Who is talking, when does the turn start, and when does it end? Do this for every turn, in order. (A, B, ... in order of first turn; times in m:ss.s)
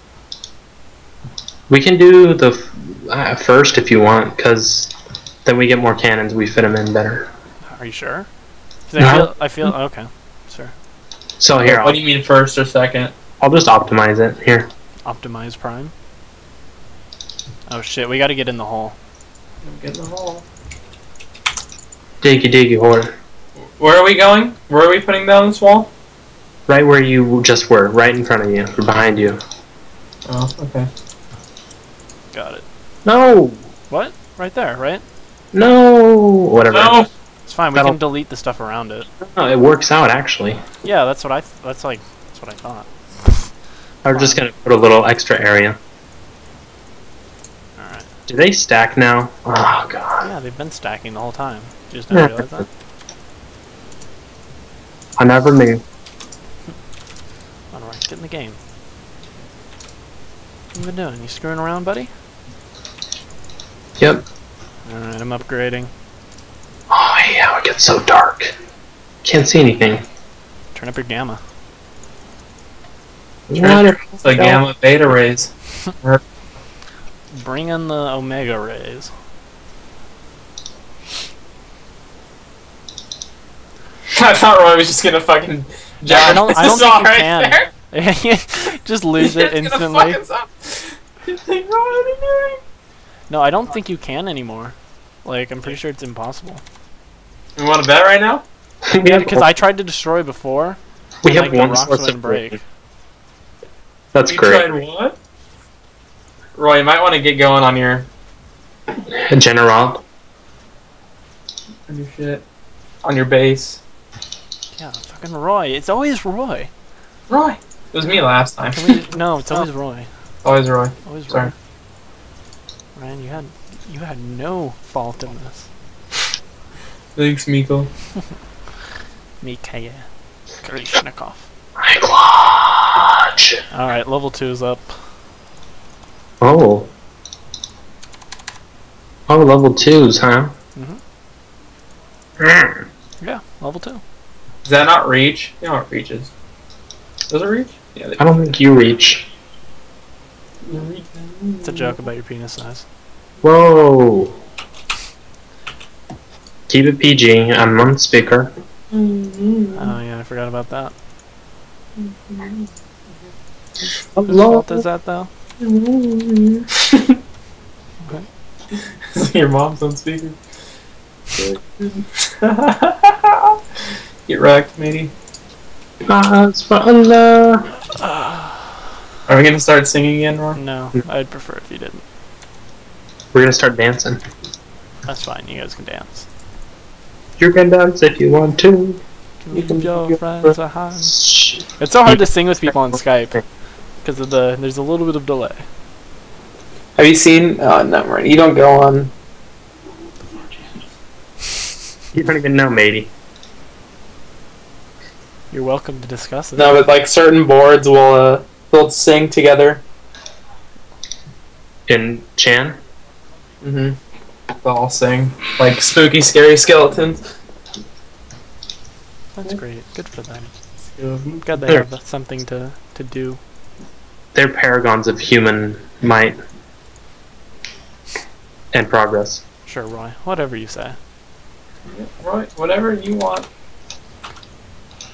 0:01.7-0:04.9 A
0:05.4-0:07.3 A
0:07.7-0:08.3 B
0:08.9-0:10.7 B
0:09.0-0:09.3 A
0:11.4-0:12.0 A
0:11.6-0:13.1 C
0:13.4-0:14.7 A
0:15.0-0:15.9 B
0:17.7-0:19.0 B
0:19.6-0:20.4 C
0:22.2-0:23.1 A
0:23.8-0:25.9 C
0:26.7-0:29.4 A
0:30.3-0:30.9 C
0:32.3-0:32.6 B
0:33.0-0:33.6 A
0:33.9-0:35.0 B
0:35.5-0:37.0 A
0:36.7-0:37.1 C
0:37.5-0:39.1 B
0:39.2-0:40.6 A
0:40.8-0:43.4 B
0:44.0-0:45.8 A
0:44.1-0:44.4 B
0:47.8-0:48.1 B
0:48.3-0:50.3 A
0:50.2-0:52.7 B
0:52.1-0:52.6 A
0:55.2-0:55.8 A
0:57.7-0:58.6 B
1:00.7-1:02.1 B
1:04.0-1:04.2 A
1:04.8-1:05.9 B
1:06.9-1:08.6 A
1:09.2-1:10.0 A
1:10.7-1:11.4 B
1:13.5-1:14.7 A
1:13.6-1:15.5 C
1:17.3-1:19.1 B
1:24.1-1:27.7 C
1:26.0-1:30.2 B
1:29.2-1:32.6 C
1:33.3-1:36.6 B
1:37.6-1:38.4 C
1:38.8-1:39.5 A
1:39.0-1:42.6 B
1:41.2-1:42.6 A
1:44.1-1:44.7 A
1:44.2-1:45.2 C
1:46.6-1:48.1 C
1:49.1-1:50.0 A
1:51.9-1:52.4 C
1:53.0-1:53.8 C
1:54.8-1:56.7 B
1:57.3-1:59.0 C
1:58.7-2:00.1 B
2:00.4-2:01.5 C
2:01.0-2:01.5 B
2:03.0-2:05.7 B
2:07.2-2:07.9 C
2:09.4-2:10.0 B
2:10.6-2:11.4 B
2:11.8-2:13.6 A
2:13.7-2:14.9 B
2:16.4-2:16.9 A
2:19.3-2:20.5 A
2:22.4-2:22.8 A
2:23.2-2:24.0 B
2:24.6-2:26.3 C
2:27.3-2:28.5 C
2:28.2-2:29.3 A
2:30.6-2:31.9 C
2:31.6-2:32.8 B
2:33.4-2:34.4 A
2:36.7-2:38.5 A
2:38.9-2:39.8 C
2:39.7-2:40.9 B
2:42.0-2:42.6 C
2:44.2-2:44.8 A
2:44.2-2:45.3 B
2:45.7-2:46.6 A
2:46.8-2:47.2 C
2:49.1-2:50.4 C
2:51.4-2:53.6 C
2:54.3-2:55.1 C
2:56.0-2:57.7 A
2:58.0-2:58.7 B
2:59.3-3:00.6 C
3:00.5-3:02.0 B
3:03.3-3:04.2 A
3:05.0-3:06.3 B
3:07.4-3:09.0 A
3:09.4-3:11.2 B
3:09.5-3:10.5 C
3:11.0-3:12.2 A
3:11.8-3:13.4 B
3:14.0-3:15.6 B
3:17.0-3:19.1 C
3:22.1-3:23.1 A
3:25.5-3:26.8 B
3:26.6-3:29.8 C
3:31.9-3:32.8 A
3:33.6-3:34.0 C
3:34.6-3:37.2 C
3:39.4-3:40.5 B
3:41.0-3:41.4 C
3:41.4-3:43.4 B
3:44.3-3:46.4 A
3:48.7-3:49.4 A
3:49.6-3:51.0 B
3:51.9-3:53.5 C